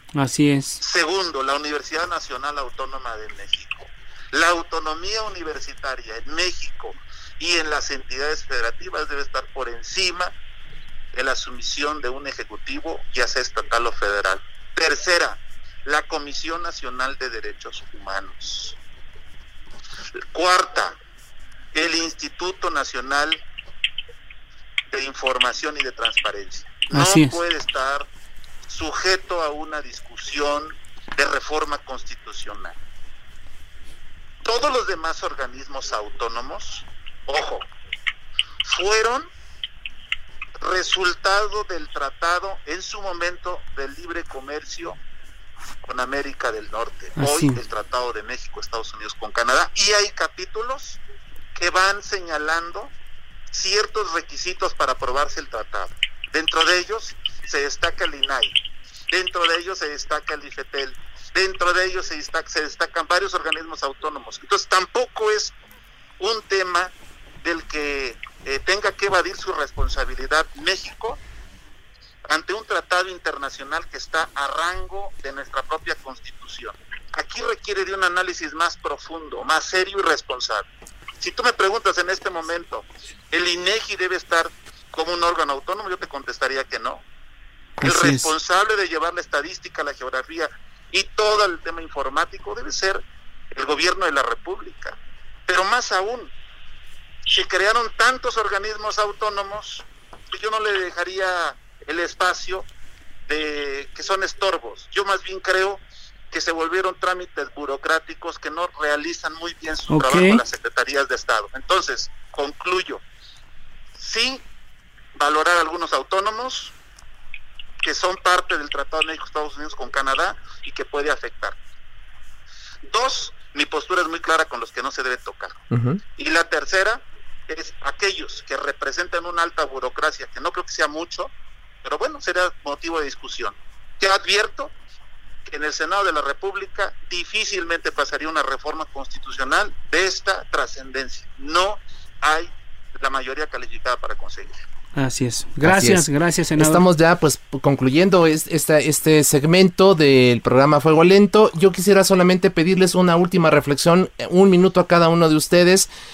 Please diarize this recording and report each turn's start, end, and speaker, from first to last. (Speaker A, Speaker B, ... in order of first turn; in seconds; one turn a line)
Speaker A: 0.1-0.8
Speaker B: 0.8-10.3
Speaker B: 11.1-18.8
Speaker B: 20.3-21.0
Speaker B: 21.7-23.4
Speaker B: 24.9-28.1
Speaker A: 26.9-27.4
Speaker B: 28.6-32.8
Speaker B: 34.4-37.7
Speaker B: 38.6-39.3
Speaker B: 40.6-45.0
Speaker B: 45.8-51.0
Speaker A: 47.2-47.6
Speaker B: 51.5-52.9
Speaker B: 53.5-58.6
Speaker B: 59.1-65.5
Speaker B: 66.2-71.2
Speaker B: 72.3-87.0
Speaker A: 87.8-88.3
Speaker B: 87.8-96.3
Speaker B: 97.3-102.7
Speaker B: 103.3-113.0
Speaker A: 109.9-110.4
Speaker B: 114.0-114.4
Speaker B: 115.2-116.7
Speaker B: 117.8-121.6
Speaker B: 122.9-125.6
Speaker C: 125.7-126.0
Speaker B: 126.2-131.3
Speaker B: 131.8-134.7
Speaker B: 135.5-144.6
Speaker A: 145.0-146.8
Speaker C: 145.6-155.9